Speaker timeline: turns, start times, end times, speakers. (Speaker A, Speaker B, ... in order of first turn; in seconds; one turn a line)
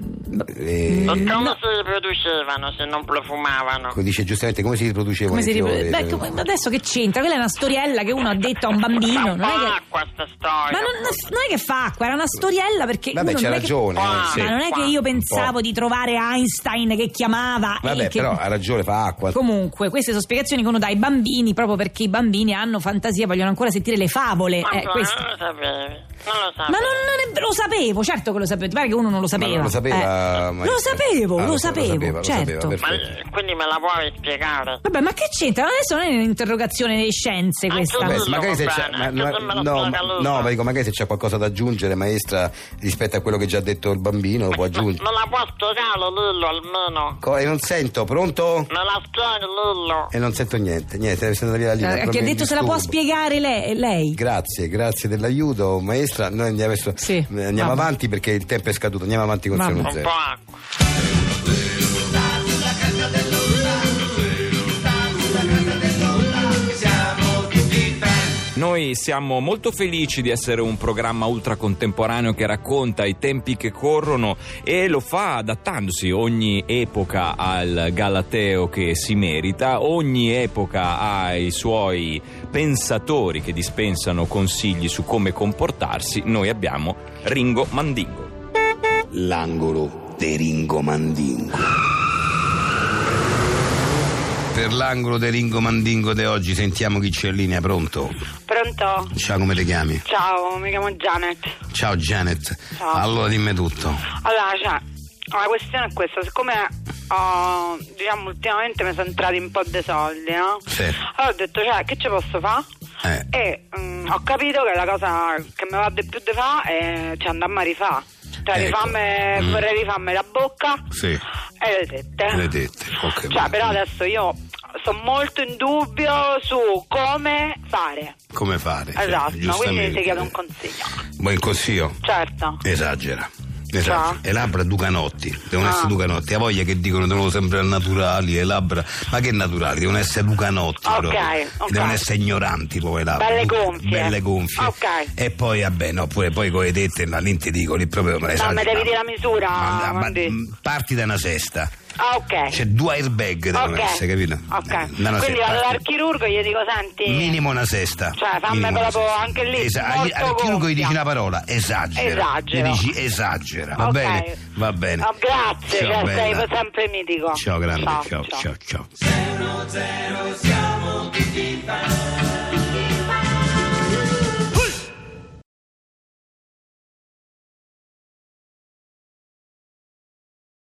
Speaker A: 0.3-1.6
Speaker B: 0.5-1.4
Speaker C: 1.0-4.0
Speaker B: 3.9-6.3
Speaker A: 5.3-9.8
Speaker C: 9.1-11.2
Speaker A: 10.7-13.8
Speaker B: 13.1-14.5
Speaker C: 13.9-14.9
Speaker A: 14.3-18.4
Speaker B: 15.3-15.5
Speaker B: 17.8-19.4
Speaker A: 19.3-25.2
Speaker C: 24.6-27.0
Speaker A: 26.7-32.8
Speaker B: 29.4-33.2
Speaker C: 32.8-34.8
Speaker A: 34.8-38.3
Speaker C: 37.7-40.5
Speaker B: 38.0-45.0
Speaker C: 44.6-47.2
Speaker B: 47.2-48.7
Speaker C: 48.7-50.1
Speaker B: 50.1-52.9
Speaker A: 51.8-54.2
Speaker B: 54.1-60.1
Speaker A: 57.0-57.9
Speaker A: 59.5-59.9
Speaker C: 59.9-60.5
Speaker D: 68.5-88.3
Speaker B: 89.1-91.7
Speaker B: 94.5-98.2
Speaker E: 98.5-99.1
Speaker B: 99.1-100.0
Speaker E: 100.1-101.6
Speaker B: 101.7-104.0
Speaker E: 102.8-103.1
Speaker E: 104.1-104.8
Speaker E: 105.3-112.6
Speaker E: 113.3-120.8
Speaker B: 121.0-121.2
Speaker E: 121.6-128.2
Speaker B: 122.3-123.8
Speaker B: 128.3-130.3
Speaker E: 128.9-131.0
Speaker B: 131.2-132.0
Speaker E: 132.0-132.6
Speaker B: 132.6-148.9
Speaker E: 133.8-134.3
Speaker E: 135.6-136.0
Speaker E: 140.8-142.0
Speaker E: 143.2-145.1
Speaker E: 148.3-150.3
Speaker B: 149.6-151.7
Speaker E: 152.0-152.6
Speaker B: 152.5-155.8
Speaker E: 153.5-157.4
Speaker B: 157.1-159.0
Speaker E: 158.2-161.0
Speaker B: 159.6-165.1
Speaker E: 161.9-162.8
Speaker E: 163.8-164.4
Speaker E: 165.0-168.4
Speaker B: 165.7-166.5
Speaker B: 167.3-168.9